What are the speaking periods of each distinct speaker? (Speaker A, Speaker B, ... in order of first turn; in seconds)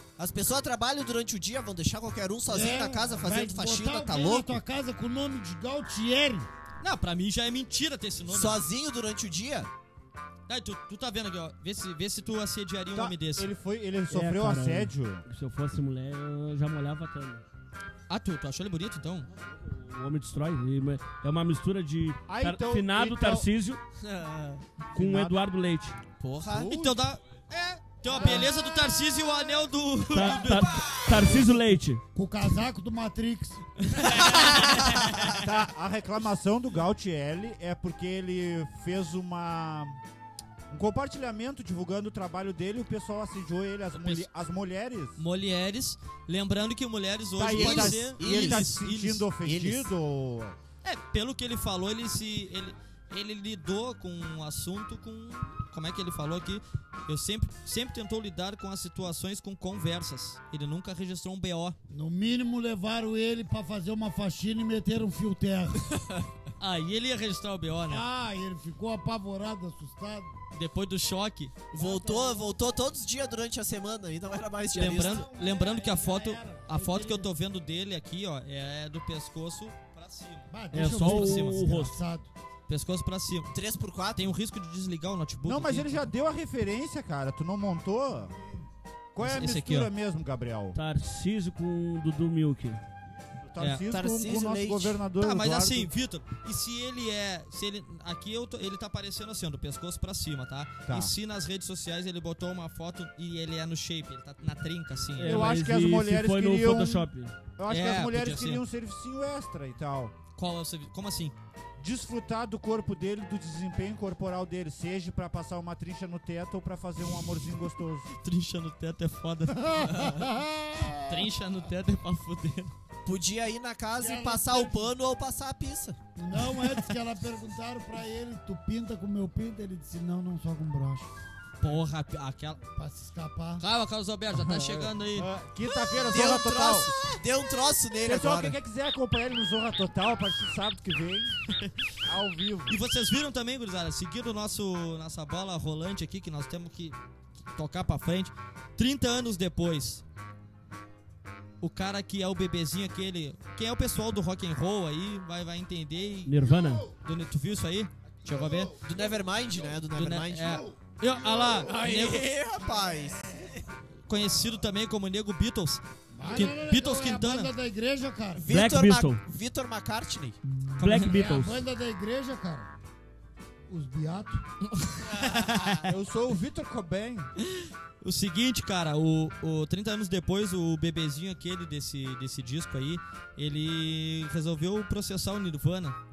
Speaker A: 0.2-4.6, 8.3-9.7, 24.0-24.6, 26.2-26.7, 47.4-48.8, 49.4-49.9, 71.7-75.3, 83.5-84.3, 93.9-95.0, 123.0-126.0, 136.1-138.6, 158.8-160.6, 161.5-163.7, 168.3-170.4, 175.3-175.7
Speaker B: 2.5-6.5, 28.1-28.5, 32.1-33.6, 61.9-65.9, 67.9-70.3, 71.8-72.6, 74.8-77.3, 80.5-82.3, 120.0-121.0, 124.0-124.9, 126.2-131.1, 132.8-133.7, 166.1-168.5, 170.9-172.7, 173.7-174.4
Speaker C: 6.8-8.6, 10.5-13.5, 18.1-19.3, 26.7-30.9, 34.1-35.4, 43.9-44.3, 45.2-49.3, 50.8-61.8, 66.6-68.0, 70.5-71.7, 74.7-81.6, 82.7-83.5, 84.2-86.1, 89.2-89.9, 93.6-93.9, 95.2-105.4, 107.7-108.6, 110.4-111.3, 118.2-120.3, 120.9-122.8, 131.6-132.6, 133.6-135.3, 142.7-147.0, 147.6-150.0, 151.6-156.5, 157.0-158.8, 159.9-162.3, 164.1-167.5, 170.8-171.3, 174.7-175.9, 177.4-186.0
Speaker D: 12.9-15.2, 22.3-23.5, 24.9-25.4, 26.4-27.0, 31.1-31.6, 35.4-40.0, 40.7-45.2, 47.4-50.6, 85.5-88.3, 89.1-90.8, 93.4-95.9, 100.9-101.1, 105.2-110.1, 111.8-118.1, 134.3-136.9, 138.1-141.3, 142.1-142.8, 175.9-177.3
Speaker E: 14.1-17.4, 19.3-23.8, 24.9-26.0, 30.1-32.0, 80.7-82.0, 90.8-92.8, 105.2-107.3, 156.3-156.9, 168.5-169.2, 170.6-171.6